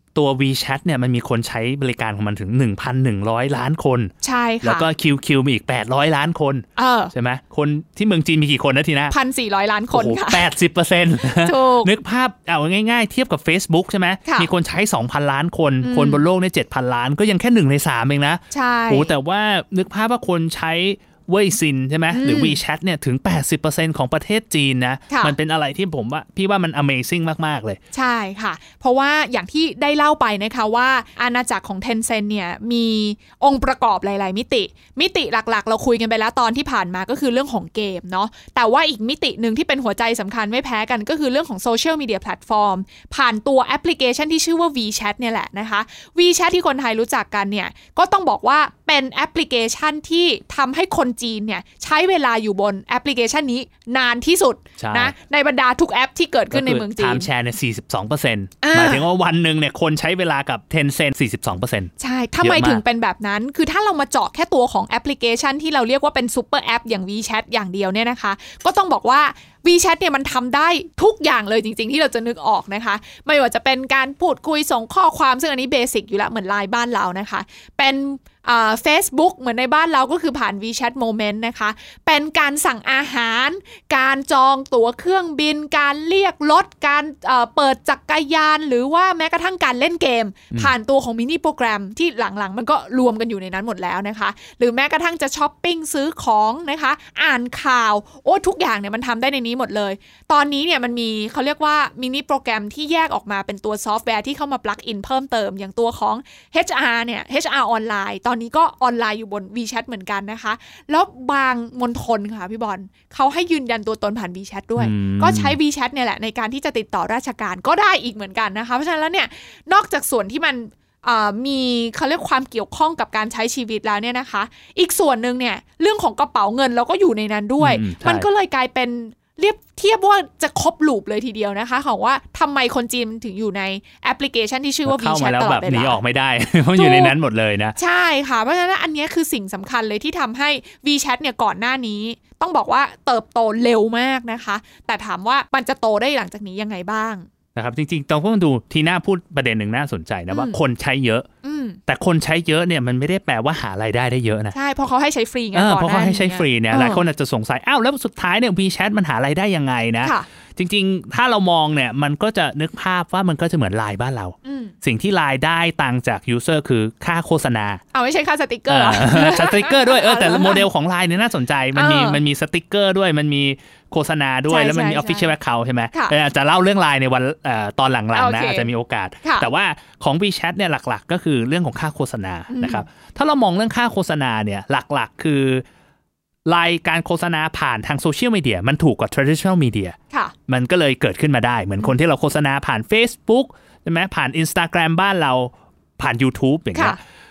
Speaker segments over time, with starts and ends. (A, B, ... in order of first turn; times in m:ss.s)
0:00.2-0:04.1 A
0:04.2-0:04.9 B
0:04.6-0:09.2 A
0:06.8-0:07.1 B
0:09.1-0:10.5 B
0:09.9-0:27.8 A
0:11.4-0:11.9 B
0:15.8-0:16.2 B
0:18.5-0:19.1 B
0:22.1-0:22.6 B
0:25.1-0:25.3 B
0:27.9-0:57.3 B
0:54.8-0:55.1 A
0:56.5-1:02.8 A
0:58.6-0:59.0 B
1:02.0-2:16.0 B
1:54.8-1:55.6 A
2:07.6-2:08.3 A
2:14.9-2:17.8 A
2:16.8-2:17.2 B
2:17.8-2:27.3 B
2:27.6-2:31.3 A
2:30.3-2:30.6 B
2:31.4-2:31.8 B
2:31.9-2:34.6 A
2:34.5-2:37.0 B
2:35.5-2:47.8 A
2:44.4-2:44.8 B
2:47.9-2:50.7 B
2:48.7-3:05.6 A
2:51.8-2:52.2 B
2:54.5-2:55.3 B
2:58.1-2:58.7 B
2:59.2-2:59.5 B
3:02.5-3:02.9 B
3:06.5-3:10.0 A
3:10.5-3:17.0 A